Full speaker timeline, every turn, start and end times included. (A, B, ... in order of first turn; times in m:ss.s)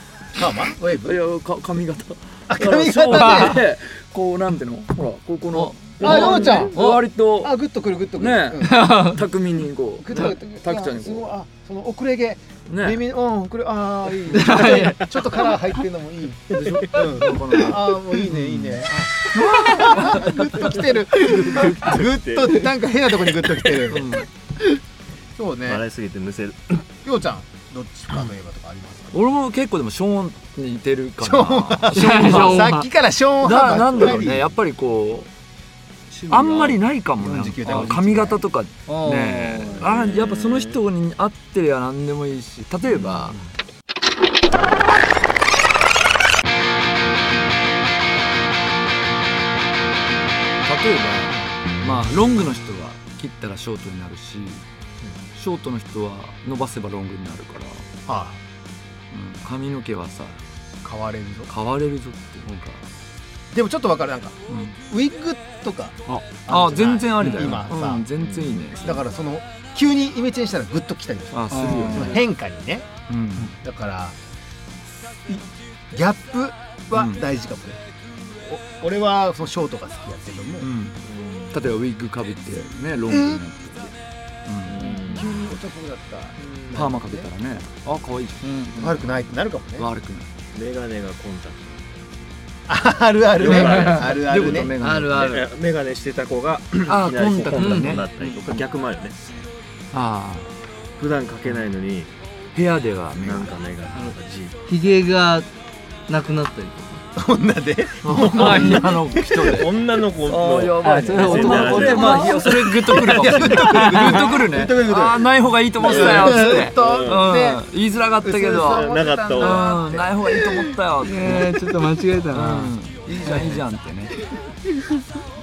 0:00.4-0:01.2 A
0:01.0-0:07.6 B
0:02.5-0:03.6 A
0:03.2-0:03.5 C
0:05.5-0:07.0 C
0:06.0-0:06.7 D
0:06.0-0:06.8 A
0:07.4-0:09.0 A
0:08.2-0:11.3 B
0:08.7-0:09.2 C
0:10.0-0:24.2 A
0:12.7-0:13.0 B
0:14.3-0:15.6 C
0:14.6-0:15.0 D
0:16.5-0:22.1 B
0:19.4-0:20.3 C
0:21.8-0:22.6 D
0:23.9-0:24.3 B
0:25.4-0:25.8 A
0:25.7-0:26.8 D
0:27.0-0:29.2 A
0:29.1-0:32.8 B
0:31.2-0:34.6 A
0:31.9-0:32.8 C
0:33.4-0:35.3 B
0:36.1-0:36.8 C
0:36.3-0:43.4 B
0:36.5-0:38.4 A
0:37.6-0:37.9 C
0:38.9-0:39.9 C
0:39.7-0:40.8 D
0:42.9-0:43.4 D
0:50.6-0:54.6 B
0:55.4-0:57.9 B
0:58.1-0:58.4 A
0:59.1-1:00.4 B
1:00.8-1:01.5 A
1:01.5-1:02.8 B
1:03.5-1:04.3 A
1:04.5-1:04.8 B
1:04.9-1:08.1 A
1:06.5-1:09.1 B
1:07.2-1:07.5 C
1:08.2-1:08.5 D
1:08.8-1:14.2 A
1:11.3-1:12.2 B
1:11.5-1:12.2 C
1:13.1-1:13.6 B
1:15.3-1:17.8 A
1:16.9-1:17.2 B
1:18.4-1:20.7 A
1:20.6-1:21.0 B
1:21.0-1:21.7 D
1:21.5-1:23.9 B
1:23.1-1:23.4 A
1:24.5-1:25.4 B
1:24.7-1:25.4 D
1:24.8-1:27.3 A
1:26.4-1:26.8 D
1:26.7-1:29.2 B
1:28.4-1:28.8 C
1:28.8-1:29.9 A
1:29.8-1:30.3 B
1:30.5-1:32.3 D
1:32.7-1:34.7 A
1:33.3-1:34.6 D
1:33.4-1:34.1 C
1:34.0-1:35.4 B
1:34.8-1:35.5 C
1:35.2-1:39.2 D
1:36.9-1:38.1 B
1:37.5-1:38.4 C
1:39.9-1:40.5 B
1:41.0-1:42.1 D
1:42.5-1:43.6 B
1:43.2-1:44.6 D
1:44.7-1:45.5 C
1:46.1-1:47.0 C
1:47.2-1:49.6 A
1:48.0-2:01.6 B
1:48.3-1:49.4 C
1:49.5-1:57.3 D
1:50.8-1:52.4 C
1:52.9-1:54.5 A
1:53.6-1:54.3 C
1:55.8-1:57.7 A
1:58.2-2:00.4 A
1:58.7-1:59.8 D
2:00.3-2:03.6 C
2:02.3-2:04.2 B
2:03.1-2:03.6 A
2:04.5-2:05.0 C